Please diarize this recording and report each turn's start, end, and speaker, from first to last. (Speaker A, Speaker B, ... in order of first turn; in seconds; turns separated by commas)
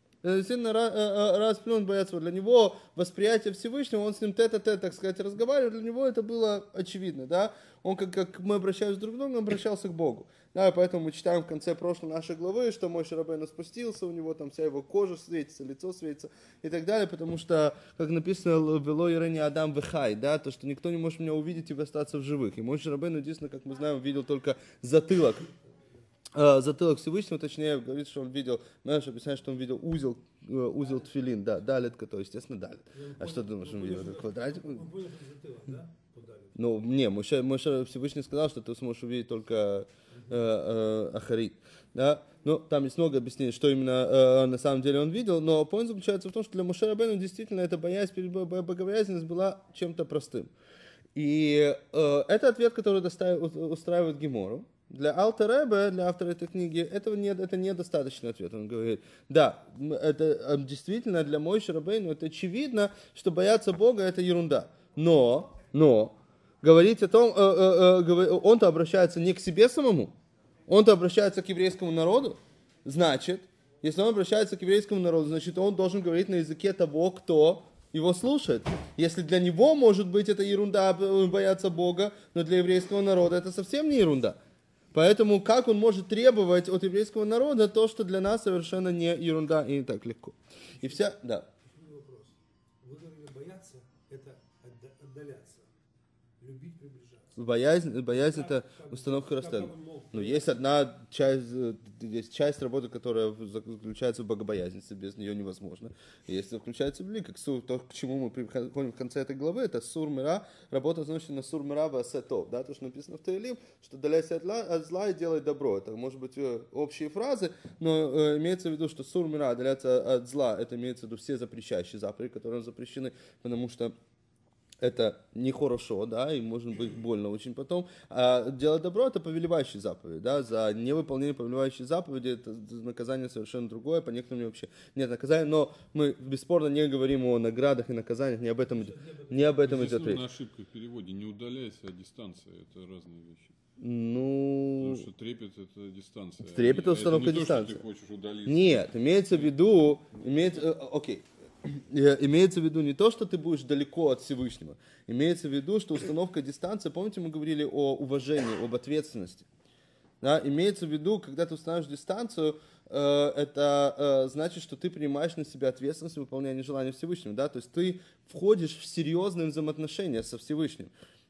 Speaker A: 0.2-25.5, Speaker A: 26.3-34.9, Speaker B: 32.9-36.7, Speaker A: 36.5-50.5, Speaker B: 40.1-40.5, Speaker A: 51.1-70.1, Speaker A: 70.7-84.4, Speaker A: 84.9-91.5, Speaker B: 90.7-95.7, Speaker B: 96.4-97.4, Speaker A: 97.4-123.9, Speaker B: 98.1-100.6, Speaker A: 124.8-140.2, Speaker B: 138.6-139.7, Speaker C: 139.6-143.5, Speaker A: 143.8-145.1, Speaker C: 144.8-149.5, Speaker A: 146.4-147.8, Speaker A: 148.4-159.5, Speaker C: 150.2-150.6, Speaker A: 160.2-170.9